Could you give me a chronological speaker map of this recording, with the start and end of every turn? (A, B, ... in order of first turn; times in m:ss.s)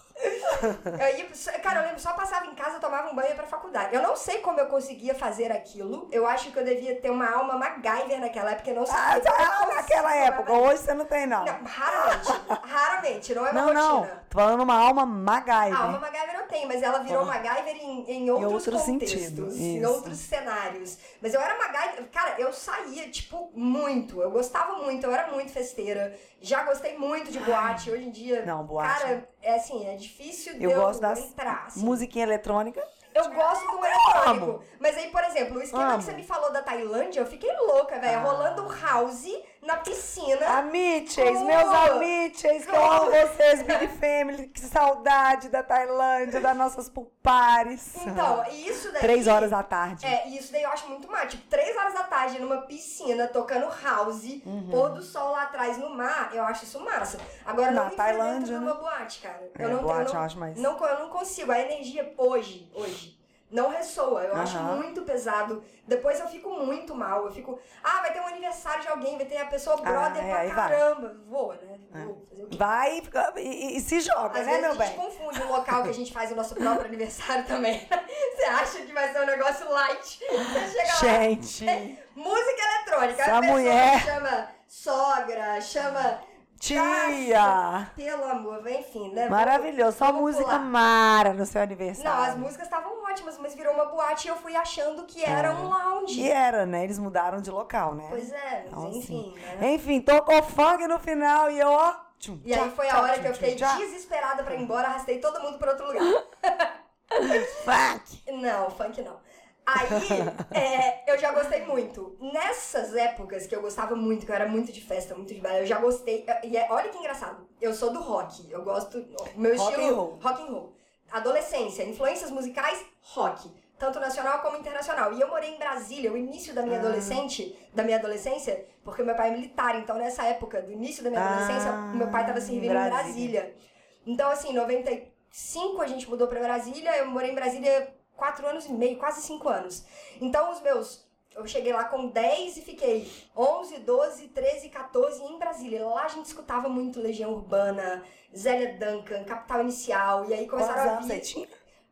0:00.4-0:01.0 A
0:00.5-0:10.7 B
0:08.9-0:12.3 A
0:11.4-0:14.2 B
0:13.5-0:16.0 A
0:15.7-0:32.1 B
0:17.1-0:17.4 A
0:18.4-0:20.2 A
0:27.4-0:27.9 A
0:28.4-0:29.2 A
0:30.6-0:34.6 A
0:33.1-0:40.6 B
0:35.7-0:36.2 A
0:38.0-0:39.0 A
0:40.5-0:48.4 A
0:41.2-0:43.9 B
0:47.9-1:12.6 B
0:49.0-0:50.2 A
0:54.4-0:55.0 A
0:57.7-0:58.8 A
0:59.6-1:00.7 A
1:04.3-1:04.8 A
1:09.8-1:10.8 A
1:11.9-1:15.0 A
1:14.3-1:30.7 B
1:15.6-1:15.9 A
1:20.5-1:22.0 A
1:23.2-1:24.1 A
1:26.6-1:27.9 A
1:29.3-1:32.5 A
1:32.0-1:36.3 B
1:35.2-1:43.8 A
1:38.1-1:39.7 B
1:42.4-1:47.6 B
1:47.2-1:48.2 A
1:48.3-2:13.5 B
1:49.8-1:50.4 A
1:59.5-2:00.2 A
2:06.7-2:07.2 A
2:11.1-2:13.4 A
2:14.1-2:31.3 B
2:30.6-2:31.5 A